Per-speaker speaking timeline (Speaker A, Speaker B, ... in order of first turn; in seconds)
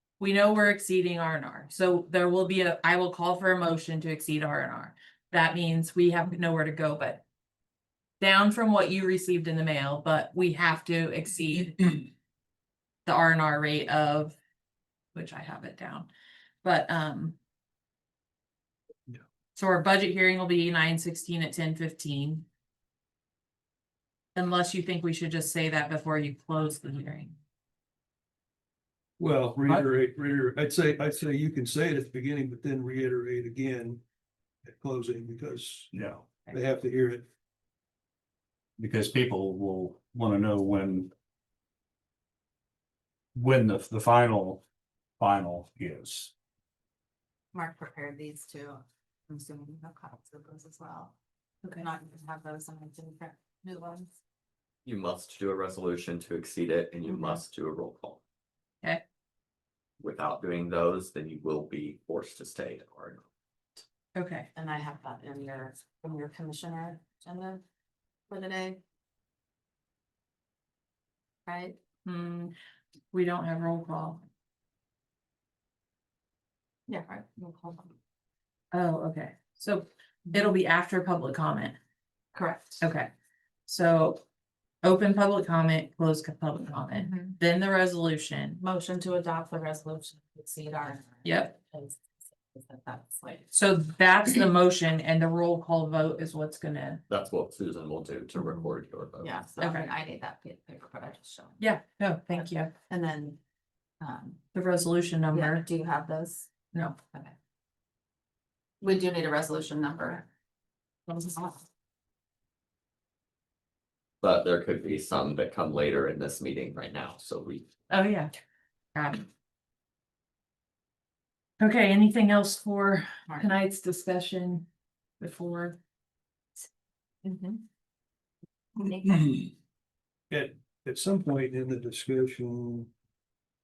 Speaker A: 0.2-7.2, 8.2-12.0, 13.0-14.4, 15.1-16.1, 16.6-17.4, 19.5-22.5, 24.3-27.4, 51.6-51.9, 64.1-64.5, 72.0-72.5, 73.1-74.2, 78.7-81.8, 82.8-83.1, 83.7-84.2, 84.8-88.6, 91.2-91.6, 93.5-97.0, 99.6-99.9, 101.6-102.7, 104.5-105.6, 106.7-107.0, 117.9-118.3, 118.9-119.2, 121.6-124.7, 125.2-125.8
Speaker B: 29.2-34.0, 34.6-37.3, 130.3-132.9
Speaker C: 35.9-36.2, 38.8-41.1, 43.3-44.6, 45.2-46.3
Speaker D: 47.5-51.1, 51.7-54.1, 64.5-67.6, 68.3-68.8, 71.5-71.8, 76.9-77.9, 82.3-82.8, 86.9-87.3, 88.6-93.5, 99.2-101.6, 102.9-103.4, 104.0-104.4, 105.3-106.5, 108.8-110.2, 111.1-111.6, 128.9-129.3
Speaker E: 54.8-58.2, 60.0-63.2, 97.1-99.4, 114.2-117.7